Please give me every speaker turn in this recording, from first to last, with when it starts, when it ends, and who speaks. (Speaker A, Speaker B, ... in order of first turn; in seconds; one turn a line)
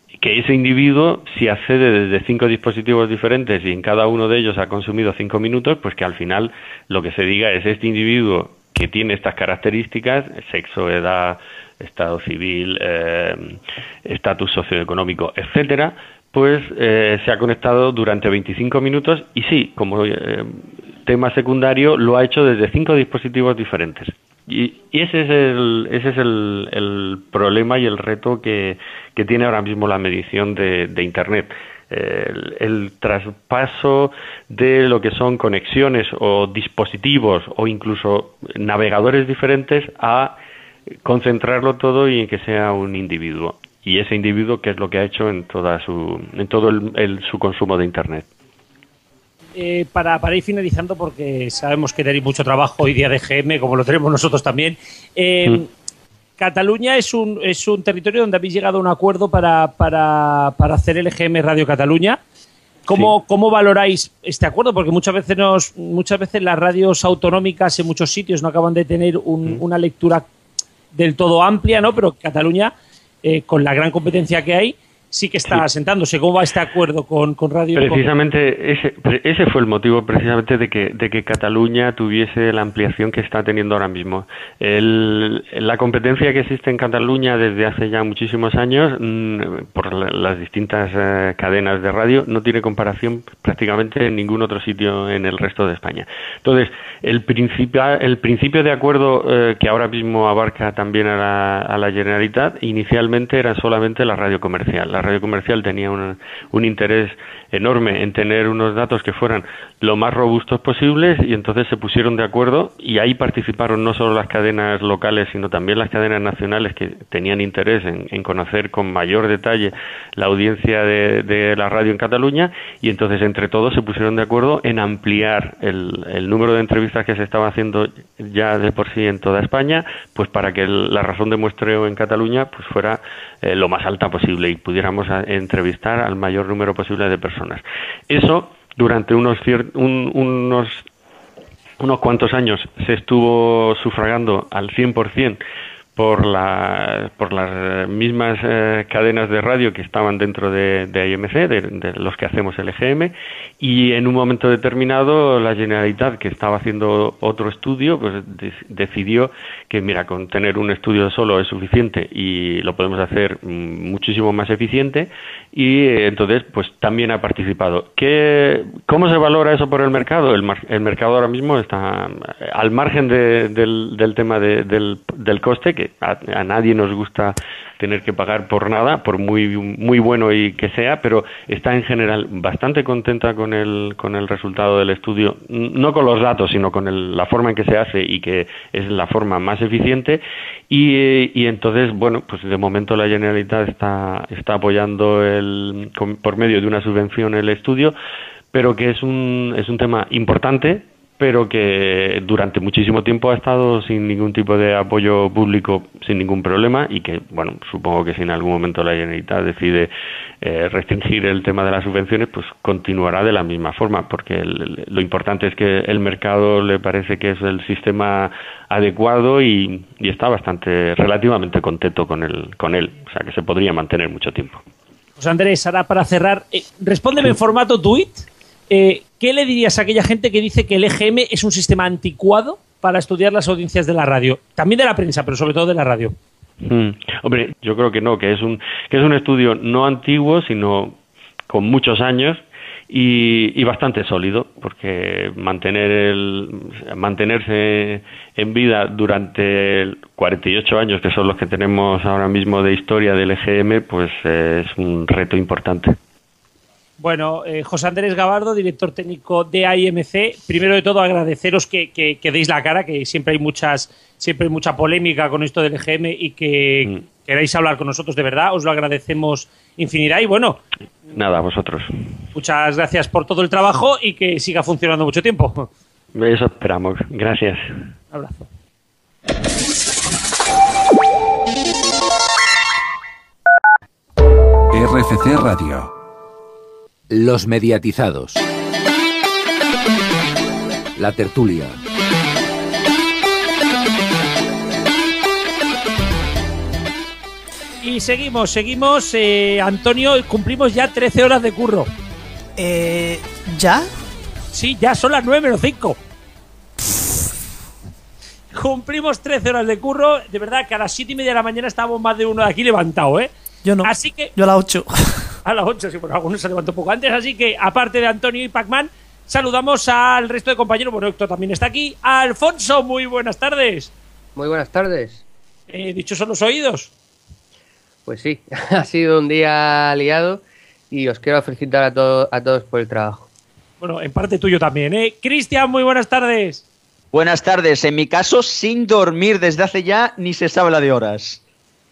Speaker A: 0.2-40.4
Speaker A: 41.0-48.3
Speaker B: 49.6-55.7
Speaker B: 56.4-62.2
Speaker B: 62.9-70.3
Speaker B: 70.9-72.7
Speaker B: 73.2-78.1
Speaker A: 77.8-140.9
Speaker A: 141.8-145.4
Speaker A: 146.0-197.9
Speaker A: 198.5-224.6
Speaker B: 225.2-236.2
Speaker A: 236.6-256.0
Speaker B: 257.0-270.6
Speaker A: 271.1-271.9
Speaker B: 272.3-275.7
Speaker A: 276.1-277.6
Speaker B: 278.1-278.5
Speaker C: 284.7-285.9
Speaker C: 287.1-288.4
Speaker C: 291.0-291.8
Speaker B: 297.8-301.9
Speaker D: 302.6-303.9
Speaker B: 304.5-306.0
Speaker B: 308.5-313.3
Speaker D: 313.6-315.3
Speaker B: 313.8-314.3
Speaker B: 315.4-323.9
Speaker E: 324.4-325.2
Speaker B: 325.7-326.9
Speaker E: 328.1-333.3
Speaker B: 333.8-336.6
Speaker F: 337.1-341.4